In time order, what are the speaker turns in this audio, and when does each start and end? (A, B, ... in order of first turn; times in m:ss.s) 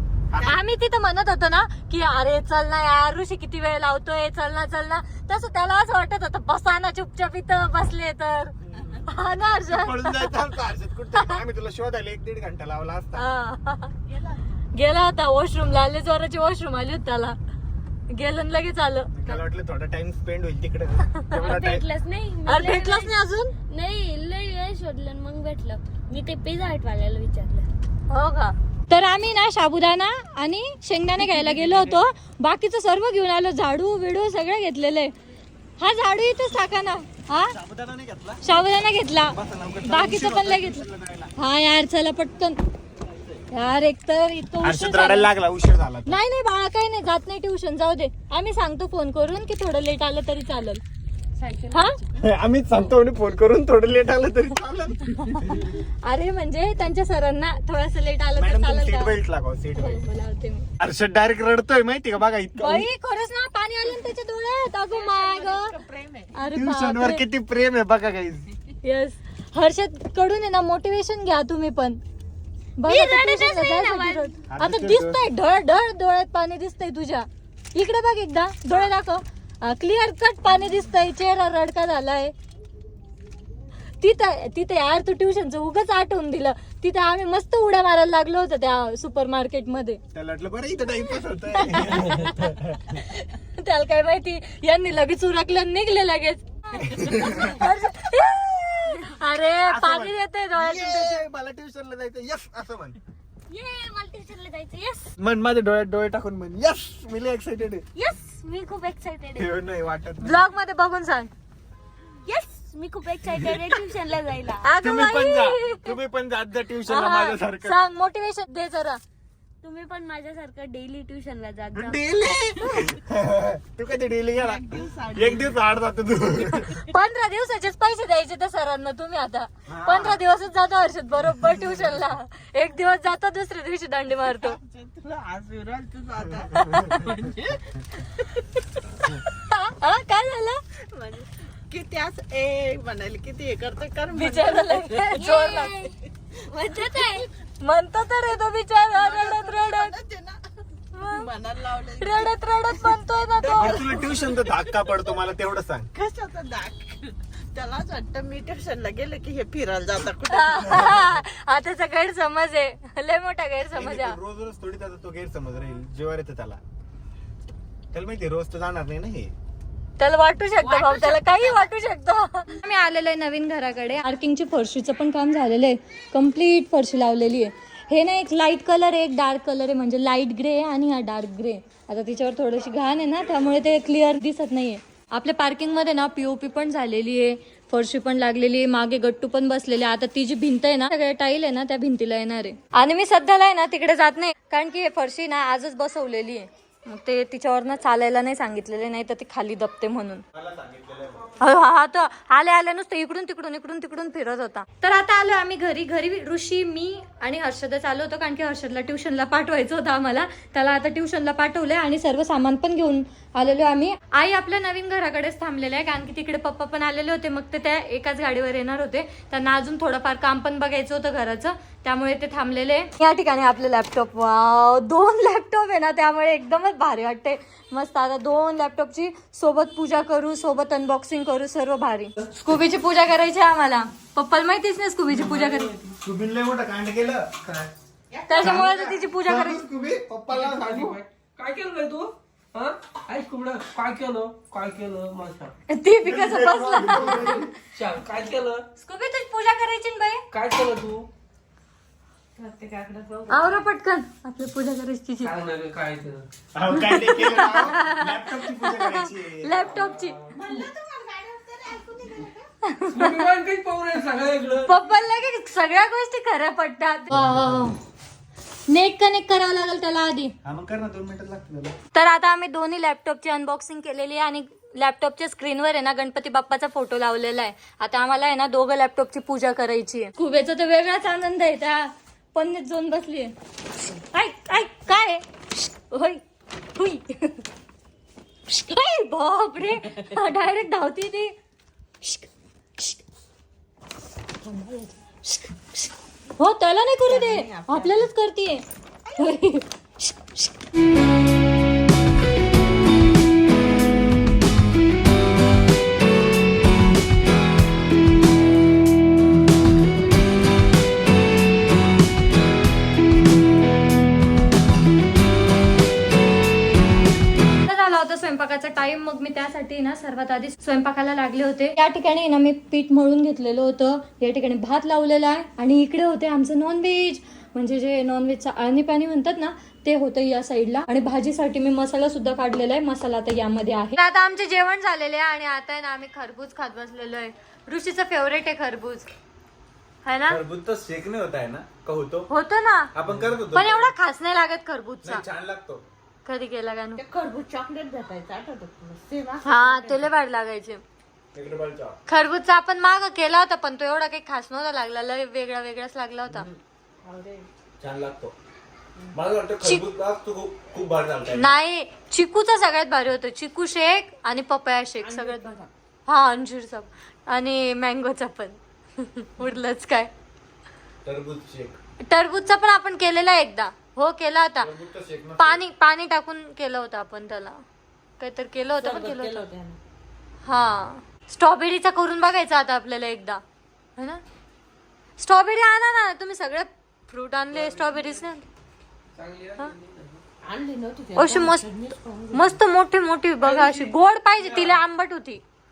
0:00.4-0:08.5 A
0:08.6-0:09.1 B
0:09.1-0:10.4 A
0:09.6-0:13.3 B
0:13.2-0:13.9 A
0:14.1-0:14.4 C
0:14.8-0:17.4 A
0:18.1-0:19.3 A
0:19.1-0:21.8 B
0:21.4-0:23.1 D
0:22.5-0:23.5 A
0:23.7-0:27.7 D
0:28.1-0:35.1 A
0:35.8-0:37.6 A
0:37.5-0:38.4 B
0:38.4-0:40.9 A
0:39.3-0:41.3 B
0:41.4-0:42.6 A
0:43.5-0:45.3 A
0:44.6-0:46.2 B
0:46.1-0:50.8 A
0:51.4-0:51.9 C
0:51.7-0:52.0 A
0:52.2-0:55.8 B
0:55.2-0:59.1 A
0:58.4-1:00.0 B
0:59.8-1:00.7 A
1:00.8-1:02.9 B
1:02.6-1:05.8 A
1:04.9-1:06.3 C
1:06.4-1:07.2 A
1:06.5-1:08.5 B
1:08.8-1:12.0 A
1:12.8-1:22.3 A
1:12.9-1:14.3 D
1:14.5-1:15.2 B
1:24.0-1:30.0 A
1:30.1-1:33.0 B
1:31.6-1:41.2 A
1:36.9-1:37.7 B
1:39.7-1:43.0 B
1:43.5-1:45.1 D
1:45.2-1:47.8 B
1:48.0-1:49.5 D
1:49.4-1:50.4 B
1:50.2-1:51.3 A
1:52.3-1:54.7 D
1:53.3-1:53.7 B
1:54.6-1:56.0 A
1:54.8-1:57.8 B
1:56.9-1:59.0 A
1:59.6-2:02.0 D
2:01.7-2:06.8 B
2:04.4-2:05.6 C
2:06.7-2:14.6 A
2:09.7-2:10.2 B
2:11.4-2:11.8 B
2:14.3-2:17.6 C
2:16.6-2:17.1 A
2:18.2-2:20.6 A
2:20.9-2:25.3 C
2:24.1-2:25.9 A
2:25.1-2:25.9 D
2:26.5-2:27.2 D
2:26.6-2:30.0 A
2:28.9-2:30.4 C
2:31.0-2:31.3 A
2:31.0-2:34.9 C
2:32.0-2:34.0 A
2:33.6-2:35.9 B
2:35.9-2:41.0 C
2:40.3-2:44.2 A
2:43.7-2:46.6 B
2:47.9-2:49.3 B
2:50.0-3:20.2 A
2:50.7-2:51.5 C
3:20.3-3:21.4 B
3:21.4-3:55.7 A
3:55.1-3:56.0 E
3:56.0-3:57.5 B
3:58.1-3:58.6 C
3:58.3-3:59.6 A
3:58.4-4:01.0 B
4:00.3-4:05.5 E
4:05.7-4:07.5 A
4:06.0-4:07.5 B
4:07.2-4:08.6 E
4:08.8-4:10.2 A
4:10.3-4:11.1 E
4:12.4-4:13.4 C
4:13.3-4:15.4 A
4:15.2-4:16.2 E
4:16.6-4:19.7 B
4:16.8-4:20.3 A
4:19.7-4:20.6 E
4:20.3-4:22.4 C
4:22.6-4:23.3 A
4:22.9-4:24.8 E
4:24.6-4:27.8 A
4:28.7-4:30.3 A
4:30.4-4:31.8 B
4:32.0-4:43.3 A
4:43.9-4:46.2 A
4:46.8-4:47.4 A
4:48.5-4:51.4 A
4:52.0-4:53.0 A
4:54.4-4:58.6 A
4:57.0-4:58.1 C
4:59.2-5:00.6 A
5:17.7-5:39.1 A
5:40.0-5:40.4 A
5:40.3-5:42.3 B
5:42.3-5:42.9 A
5:43.0-5:43.9 B
5:43.5-5:45.2 A
5:45.0-5:45.9 B
5:46.3-5:47.0 A
5:47.0-5:50.1 C
5:49.4-5:50.8 A
5:51.3-5:52.0 B
5:52.1-5:56.5 A
5:56.3-5:56.6 B
5:57.0-5:57.5 C
5:57.8-5:58.4 B
5:59.1-6:01.6 B
6:01.4-6:10.1 A
6:05.0-6:05.7 C
6:11.0-6:11.8 B
6:12.1-6:14.7 A
6:14.6-6:15.6 B
6:15.4-6:17.6 A
6:18.2-6:19.5 A
6:18.8-6:19.8 C
6:20.4-6:23.4 A
6:25.2-6:28.4 A
6:27.5-6:28.2 E
6:29.1-6:30.2 E
6:30.4-6:32.6 C
6:31.2-6:31.7 A
6:32.3-6:35.4 A
6:33.4-6:34.8 E